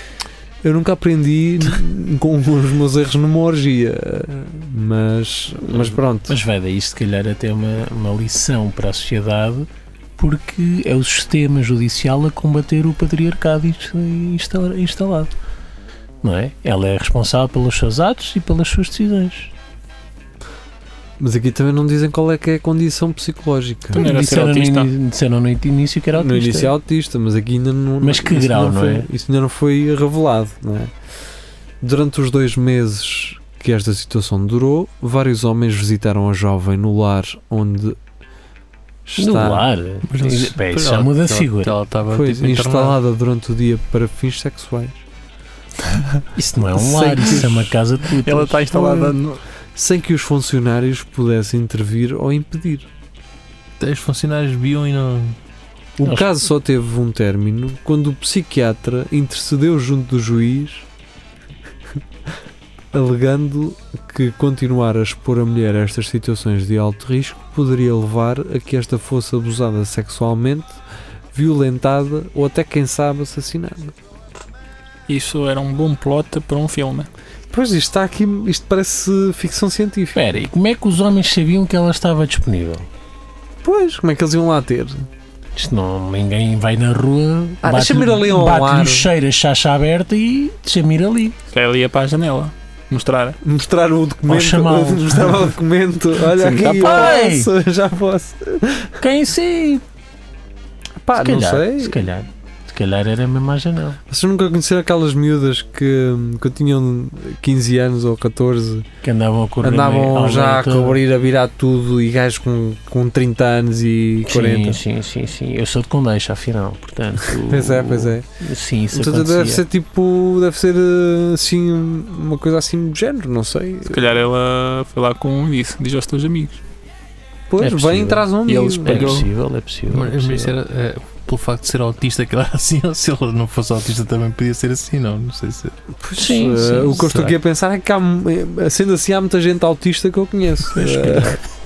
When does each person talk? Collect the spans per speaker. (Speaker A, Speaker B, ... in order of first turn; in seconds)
Speaker A: 0.6-6.4, 21.2-24.0, 26.1-30.9, 31.8-38.0, 39.0-39.7, 42.1-45.0, 46.7-47.7, 48.8-49.1, 49.7-52.9, 56.0-60.9, 62.9-70.8, 71.3-73.9, 77.5-80.2, 83.6-85.0, 87.6-89.1, 93.4-98.9, 101.0-102.0, 104.1-108.8, 109.6-114.8, 117.5-118.2, 118.9-124.1, 127.5-129.2, 136.0-141.4
Speaker B: 5.7-15.3, 16.2-19.5, 23.9-26.7, 28.0-29.1, 39.2-41.8, 46.3-49.0, 80.1-82.9, 85.5-91.3, 94.2-95.4, 96.6-97.5, 99.0-99.8, 101.1-104.0, 109.0-111.0, 114.3-119.6, 127.6-128.3, 128.8-130.6, 136.2-137.1
Speaker C: 23.9-24.9, 48.2-49.4, 75.1-77.1, 91.5-93.4, 96.3-97.2, 123.8-126.6, 128.5-129.3
Speaker D: 40.1-43.0, 53.8-55.4, 129.9-135.7, 136.9-137.3